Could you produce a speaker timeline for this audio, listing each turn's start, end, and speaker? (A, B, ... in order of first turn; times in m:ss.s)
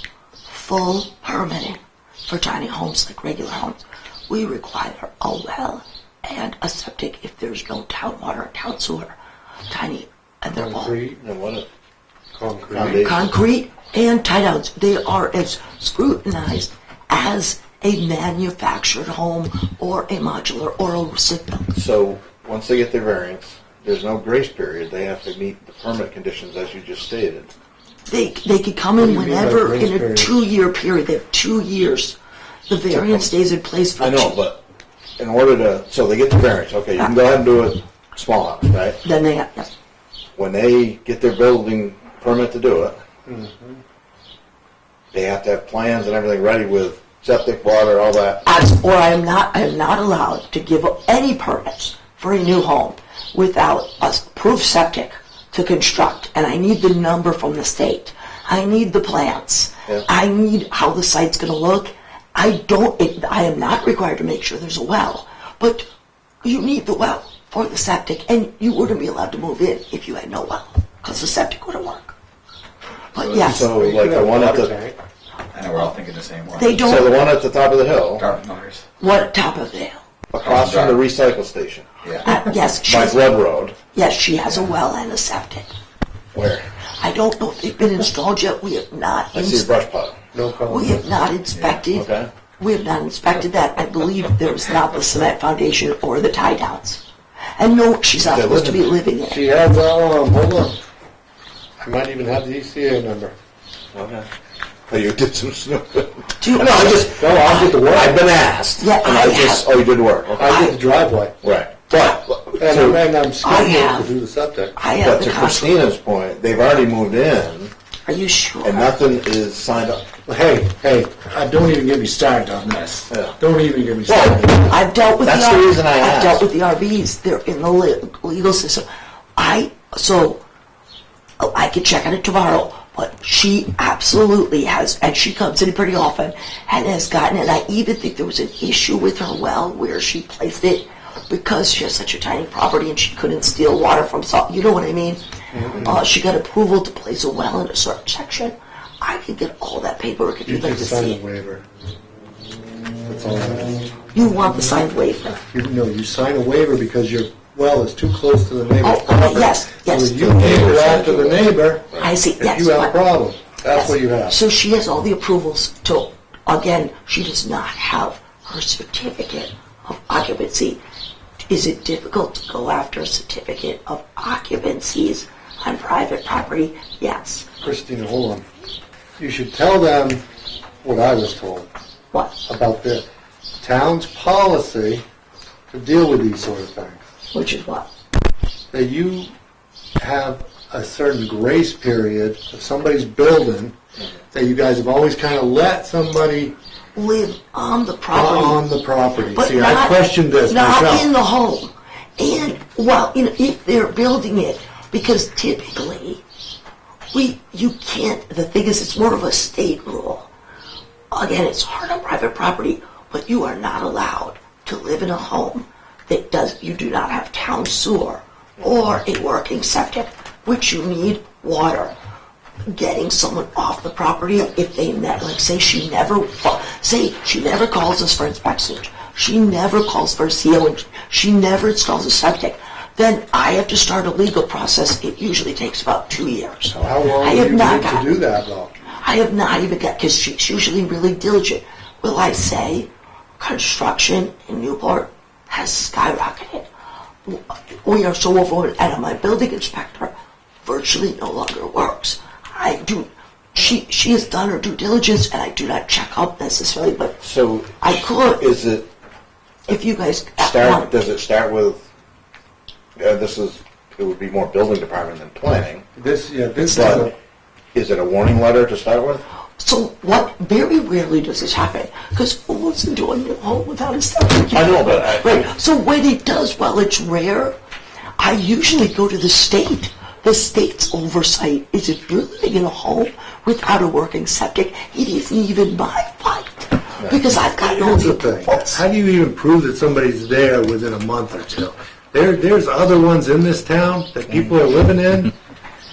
0:00.5-0:09.1 A
0:09.7-0:10.9 A
0:10.5-0:11.2 B
0:11.2-0:11.7 C
0:12.3-0:13.0 B
0:12.7-0:13.3 C
0:12.9-0:21.7 A
0:21.7-0:27.5 C
0:28.1-0:32.2 A
0:29.0-0:30.3 B
0:32.7-0:34.4 A
0:32.9-0:33.3 C
0:34.0-0:34.6 C
0:35.2-0:39.0 C
0:39.0-0:39.7 A
0:40.4-0:43.0 C
0:43.3-0:43.8 B
0:45.1-0:48.4 C
0:48.4-1:05.9 A
1:06.4-1:12.1 A
1:13.1-1:13.7 A
1:13.2-1:13.5 D
1:13.3-1:14.7 C
1:13.7-1:15.0 B
1:15.5-1:17.0 D
1:16.6-1:17.2 A
1:16.7-1:18.3 C
1:18.2-1:18.8 D
1:19.0-1:20.0 A
1:20.3-1:21.8 C
1:20.4-1:21.0 D
1:22.0-1:22.3 D
1:22.2-1:23.3 A
1:22.9-1:23.8 C
1:23.9-1:25.7 A
1:26.3-1:26.6 C
1:27.0-1:29.7 A
1:29.3-1:30.2 C
1:30.3-1:31.1 B
1:30.7-1:37.0 A
1:31.5-1:31.8 D
1:31.9-1:32.3 C
1:37.6-1:39.4 A
1:38.2-1:38.9 C
1:39.2-1:40.8 B
1:41.8-1:43.3 B
1:43.9-1:44.3 C
1:44.9-1:50.6 C
1:46.4-1:47.8 A
1:47.1-1:48.2 B
1:48.8-1:49.7 A
1:50.4-1:51.3 B
1:50.4-1:50.8 A
1:51.4-1:53.0 C
1:52.6-1:54.7 B
1:53.4-1:54.1 A
1:54.8-1:55.8 A
1:55.0-1:57.7 C
1:58.0-1:58.9 A
1:58.6-2:00.0 C
2:00.2-2:04.6 B
2:03.1-2:03.4 C
2:04.1-2:04.5 C
2:04.5-2:10.4 A
2:05.2-2:06.4 C
2:11.4-2:25.2 A
2:25.5-2:26.0 B
2:25.8-2:31.2 A
2:30.4-2:31.6 B
2:33.0-2:33.8 B
2:34.1-2:35.4 A
2:35.5-2:44.4 B
2:38.8-2:40.7 A
2:40.3-2:42.1 C
2:42.0-2:43.0 A
2:43.7-2:50.8 A
2:51.5-2:57.5 A
2:57.6-2:58.4 B
2:59.2-3:00.2 B
3:00.8-3:01.7 B
3:02.5-3:03.0 B
3:03.6-3:05.0 B
3:05.7-3:07.0 B
3:07.3-3:07.9 A
3:08.7-3:09.3 B
3:10.0-3:13.7 B
3:14.3-3:16.5 B
3:16.9-3:18.6 A
3:18.1-3:21.1 B
3:19.3-3:26.2 A
3:27.1-3:30.3 A
3:31.1-3:41.9 A
3:42.7-3:58.1 A
3:56.8-3:58.7 B
3:59.0-4:06.7 A
4:07.2-4:10.1 A
4:10.6-4:17.2 A
4:17.2-4:18.9 C
4:17.8-4:18.5 A
4:19.7-4:20.9 A
4:20.4-4:21.8 C
4:23.0-4:25.8 C
4:26.0-4:27.1 B
4:26.7-4:27.1 C
4:26.7-4:27.0 A
4:27.7-4:29.2 C
4:29.6-4:37.6 A
4:34.5-4:35.5 C
4:38.2-4:48.8 A
4:47.5-4:55.3 B
4:54.3-4:54.5 C